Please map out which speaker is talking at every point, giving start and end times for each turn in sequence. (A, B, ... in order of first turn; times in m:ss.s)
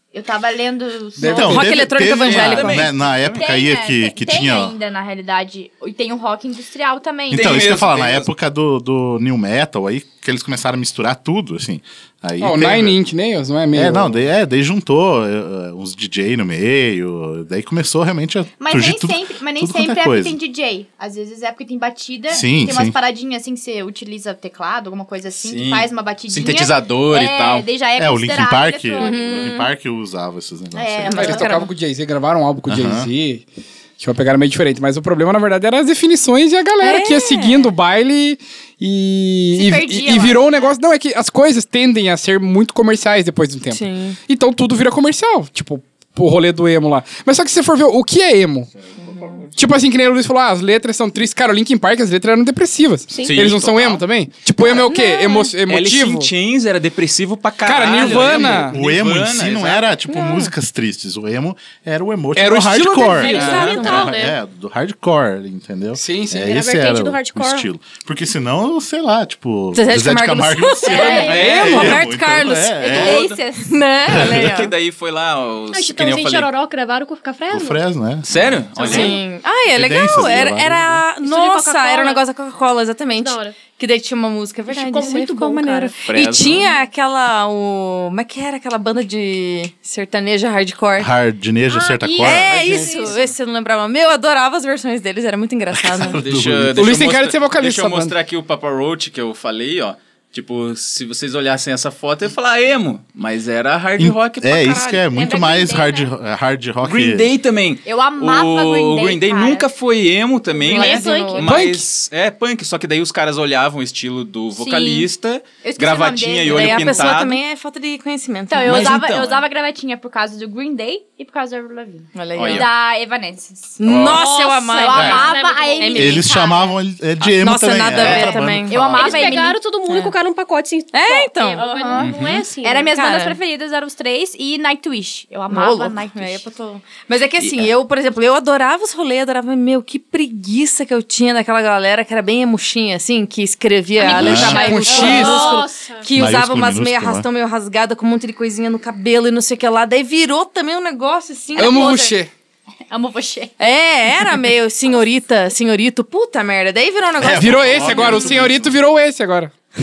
0:00.1-0:01.7 A
0:01.2-0:01.6 B
0:01.3-0:04.8 C
0:01.4-0:02.8 D
0:02.0-0:03.4 E
0:03.3-0:07.7 A
0:07.3-0:13.0 C
0:07.3-0:08.3 E
0:12.4-0:14.2 B
0:13.7-0:20.4 C
0:18.6-0:29.6 A
0:22.3-0:23.0 C
0:25.4-0:27.7 E
0:28.0-0:31.3 C
0:29.0-0:29.7 D
0:30.7-0:31.5 A
0:31.1-0:31.7 D
0:31.1-0:33.4 B
0:32.7-0:33.1 C
0:34.0-0:48.7 B
0:36.8-0:37.7 D
0:39.5-0:40.7 A
0:43.7-0:44.2 D
0:49.1-0:49.4 D
0:49.6-0:56.3 B
0:53.1-0:53.4 F
0:53.2-0:54.0 E
0:54.6-0:55.5 D
0:55.7-0:59.9 E
0:57.6-0:58.8 B
0:57.9-1:13.3 C
1:00.1-1:00.5 D
1:02.4-1:03.7 B
1:03.0-1:04.4 F
1:03.2-1:04.2 D
1:03.3-1:04.0 E
1:06.0-1:06.5 B
1:06.4-1:07.7 F
1:09.7-1:14.7 D
1:10.9-1:11.4 F
1:10.9-1:11.4 A
1:11.2-1:11.8 E
1:11.3-1:12.0 B
1:12.8-1:13.8 A
1:12.9-1:13.4 E
1:14.1-1:14.6 C
1:14.2-1:16.5 E
1:15.7-1:17.8 F
1:17.5-1:19.0 C
1:18.2-1:19.2 E
1:18.8-1:31.1 D
1:18.8-1:19.1 F
1:19.7-1:21.0 C
1:21.2-1:22.2 F
1:23.2-1:23.6 F
1:24.7-1:26.1 F
1:26.0-1:26.6 E
1:31.0-1:32.6 C
1:31.7-1:33.2 F
1:32.2-1:36.2 D
1:32.6-1:32.9 B
1:32.8-1:33.1 A
1:35.7-1:37.0 C
1:36.1-1:45.1 E
1:36.8-1:38.1 B
1:44.0-1:47.3 C
1:45.1-1:46.1 A
1:46.8-1:57.4 E
1:47.8-1:49.7 A
1:50.6-1:51.4 A
1:50.7-1:51.5 D
1:51.4-1:51.9 B
1:54.6-1:55.1 A
1:55.6-1:57.2 A
1:56.5-1:59.0 D
1:58.5-2:03.8 A
1:58.6-1:59.5 E
2:02.2-2:02.7 D
2:02.4-2:02.7 E
2:03.8-2:06.2 D
2:03.8-2:04.2 E
2:04.1-2:06.2 F
2:04.6-2:06.8 A
2:06.0-2:08.8 C
2:07.2-2:09.0 D
2:08.0-2:09.2 E
2:08.1-2:09.6 A
2:08.8-2:13.0 F
2:10.9-2:11.9 D
2:11.6-2:16.5 A
2:12.0-2:12.5 E
2:12.9-2:13.4 D
2:15.5-2:32.2 D
2:17.4-2:17.7 E
2:24.0-2:25.9 A
2:24.1-2:24.7 C
2:24.4-2:25.5 B
2:24.9-2:26.1 F
2:26.2-2:27.3 C
2:31.6-2:32.3 B
2:32.9-2:33.6 A
2:33.6-2:38.4 D
2:37.2-2:38.7 C
2:37.3-2:39.5 B